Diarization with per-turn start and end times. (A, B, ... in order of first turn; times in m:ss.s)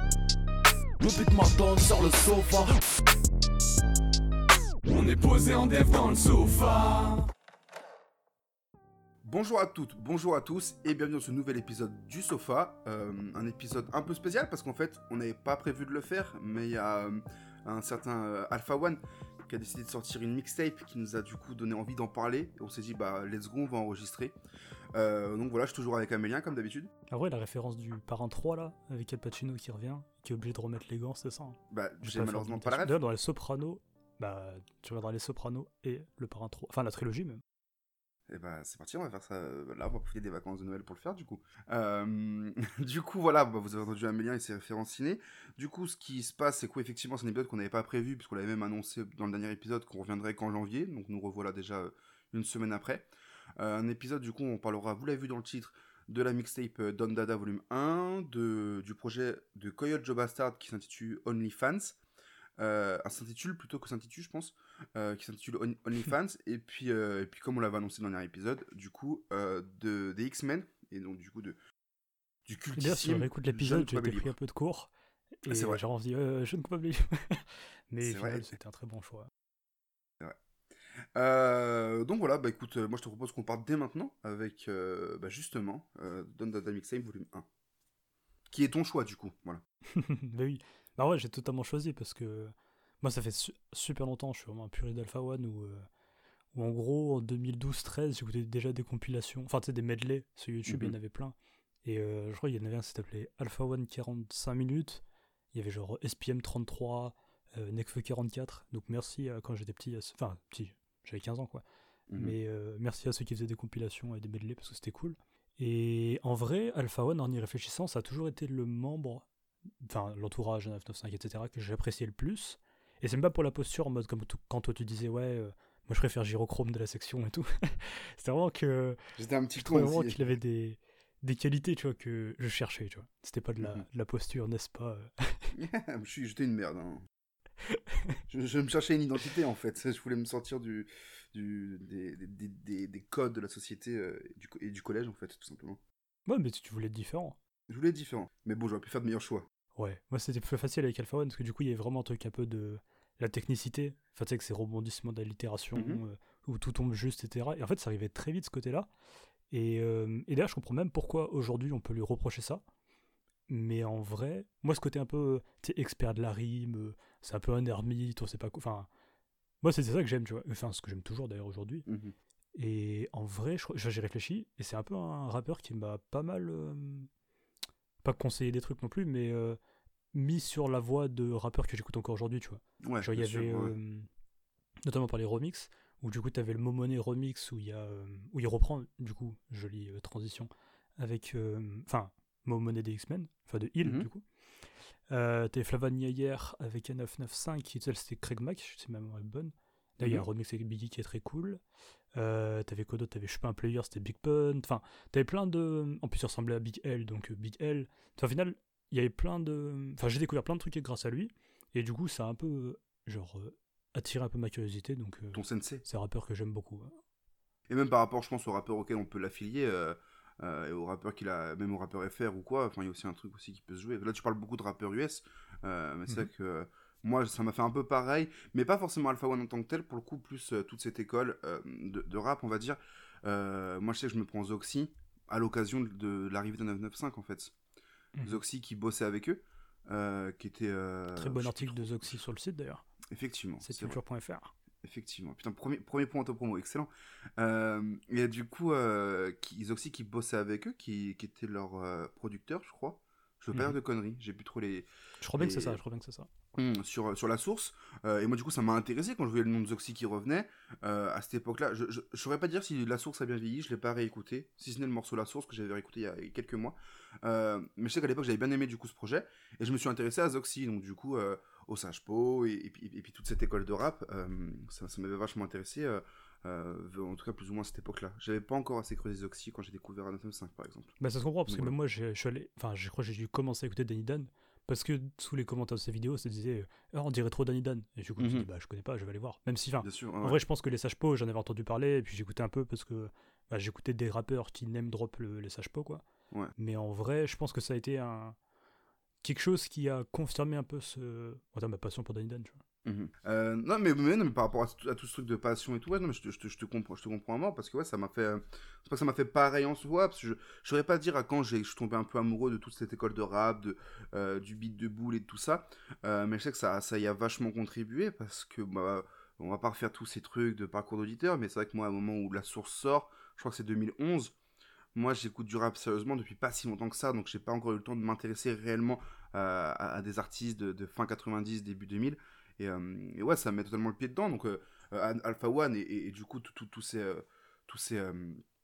0:01.0-0:02.8 A
0:04.8-0:07.2 A
0:09.2-0:24.3 B
0:24.9-0:26.9 B
0:27.1-0:37.4 C
0:31.7-0:33.0 B
0:38.3-1:02.0 B
1:02.6-1:11.6 B
1:12.4-1:14.3 B
1:12.7-1:14.9 C
1:15.4-1:19.3 C
1:15.5-1:15.8 B
1:18.0-1:18.5 B
1:21.2-1:27.5 B
1:28.5-1:29.6 B
1:29.9-1:35.9 C
1:36.5-1:51.6 C
1:40.7-1:40.9 B
1:52.1-1:52.4 B
1:52.1-1:59.2 C
1:59.8-2:09.0 C
2:09.2-2:10.3 B
2:09.6-2:15.5 C
2:15.5-2:17.0 B
2:17.7-2:18.2 C
2:18.3-2:25.8 B
2:26.3-2:27.4 C
2:27.7-2:29.4 B
2:29.8-2:38.9 C
2:35.7-2:36.0 B
2:39.5-2:42.6 C
2:43.5-2:48.9 C
2:49.6-2:51.9 C
2:51.9-2:52.1 B
2:52.6-2:57.1 C
2:58.0-2:59.6 C
3:00.1-3:04.1 C
3:02.8-3:03.7 B
3:04.8-3:14.2 C
3:13.8-3:14.1 B
3:15.1-3:21.6 C
3:22.1-3:37.0 C
3:35.3-3:35.8 B
3:37.7-3:57.5 B
3:58.2-4:02.2 B
4:01.1-4:02.8 C
4:03.1-4:04.0 B
4:03.6-4:04.5 C
4:04.8-4:15.8 B
4:15.2-4:16.3 C
4:16.5-4:40.9 B
4:41.0-4:56.0 C
4:41.5-4:41.7 B
4:48.2-4:48.5 B
4:49.8-4:50.4 B
4:56.6-4:58.4 C
4:59.2-5:02.6 C
5:02.8-5:24.3 B
5:24.9-5:38.4 B